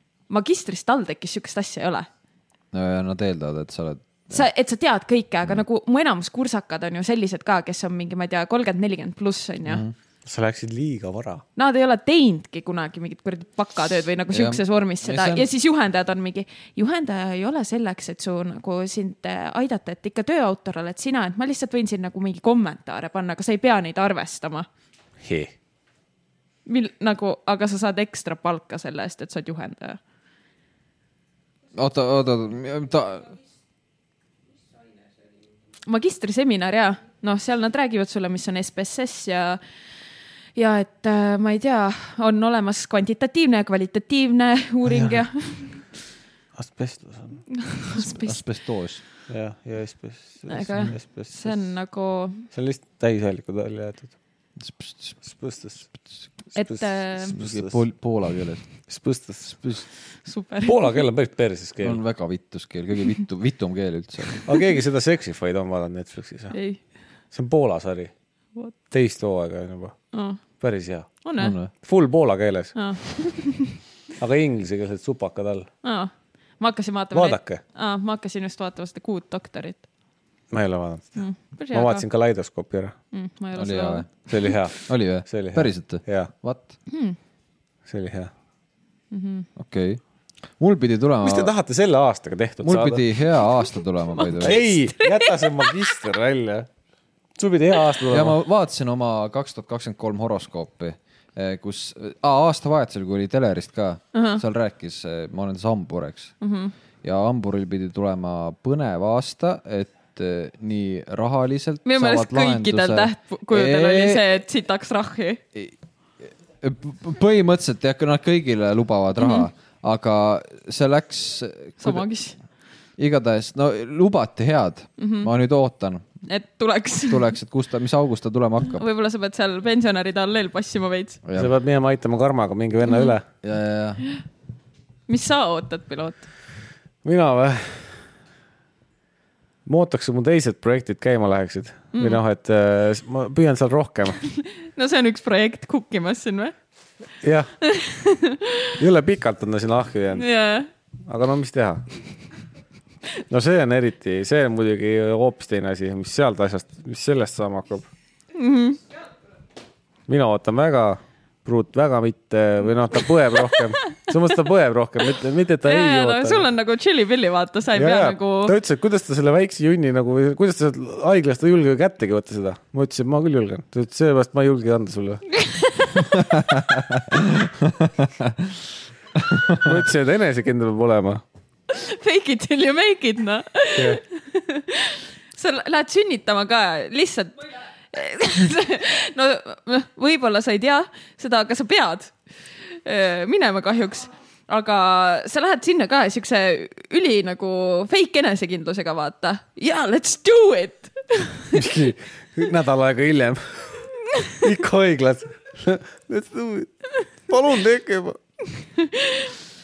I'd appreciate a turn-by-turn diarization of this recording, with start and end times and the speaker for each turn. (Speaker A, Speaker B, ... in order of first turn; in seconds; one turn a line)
Speaker A: 0.3-2.1
Speaker B: 2.7-4.4
Speaker A: 4.3-9.8
Speaker B: 9.7-9.9
Speaker C: 10.3-11.4
Speaker A: 11.6-24.7
Speaker B: 14.3-15.4
Speaker C: 25.2-25.5
Speaker A: 26.7-30.0
Speaker B: 31.7-33.4
Speaker A: 35.9-39.6
Speaker A: 40.5-45.9
Speaker C: 44.8-45.2
Speaker C: 46.5-47.4
Speaker A: 47.5-48.5
Speaker B: 48.0-49.0
Speaker C: 49.3-51.6
Speaker A: 50.5-52.5
Speaker C: 52.5-54.1
Speaker B: 54.6-55.2
Speaker C: 55.3-55.9
Speaker C: 56.5-57.8
Speaker A: 56.5-57.4
Speaker B: 57.3-58.6
Speaker C: 58.9-59.9
Speaker A: 60.2-61.0
Speaker C: 60.6-62.0
Speaker B: 61.8-64.4
Speaker C: 64.4-66.6
Speaker A: 66.5-66.8
Speaker C: 67.3-68.1
Speaker C: 68.9-70.0
Speaker A: 70.1-70.4
Speaker C: 70.6-71.1
Speaker A: 71.2-71.6
Speaker B: 71.4-71.7
Speaker C: 71.7-72.8
Speaker A: 72.7-73.8
Speaker C: 74.2-75.7
Speaker A: 75.8-79.8
Speaker C: 77.1-77.6
Speaker C: 80.5-82.9
Speaker A: 81.2-82.0
Speaker A: 83.1-84.6
Speaker B: 83.5-86.7
Speaker C: 84.3-86.3
Speaker A: 86.9-87.2
Speaker C: 87.9-88.3
Speaker A: 89.1-89.5
Speaker B: 89.6-90.0
Speaker B: 90.6-91.5
Speaker C: 91.2-93.1
Speaker B: 92.6-94.6
Speaker A: 94.2-96.0
Speaker C: 94.4-96.7
Speaker C: 97.4-98.3
Speaker B: 98.1-106.3
Speaker A: 104.1-104.4
Speaker A: 106.4-106.7
Speaker B: 107.0-114.2
Speaker A: 111.8-115.4
Speaker B: 116.6-122.0
Speaker A: 119.2-119.5
Speaker A: 121.8-122.3
Speaker B: 123.0-126.0
Speaker A: 125.0-125.3
Speaker A: 126.3-127.3
Speaker B: 127.1-128.8
Speaker A: 128.7-131.2
Speaker C: 131.3-133.2
Speaker A: 132.9-133.2
Speaker B: 133.4-134.1
Speaker A: 135.1-136.2
Speaker C: 137.0-138.0
Speaker C: 139.7-144.2
Speaker A: 141.9-142.2
Speaker A: 144.2-146.5
Speaker C: 147.2-147.5
Speaker A: 147.6-148.7
Speaker C: 148.8-150.3
Speaker A: 150.2-150.7
Speaker C: 151.1-151.8
Speaker C: 153.3-157.9
Speaker A: 158.3-158.8
Speaker C: 160.1-166.4
Speaker A: 163.6-164.1
Speaker A: 165.6-168.6
Speaker C: 167.7-175.2
Speaker A: 175.3-176.0
Speaker B: 176.1-178.5
Speaker B: 179.2-179.7
Speaker C: 179.6-181.2
Speaker A: 181.7-201.8
Speaker C: 183.7-184.0
Speaker C: 201.5-203.9
Speaker A: 204.1-204.4
Speaker C: 204.4-206.7
Speaker C: 207.3-208.2
Speaker A: 208.4-209.4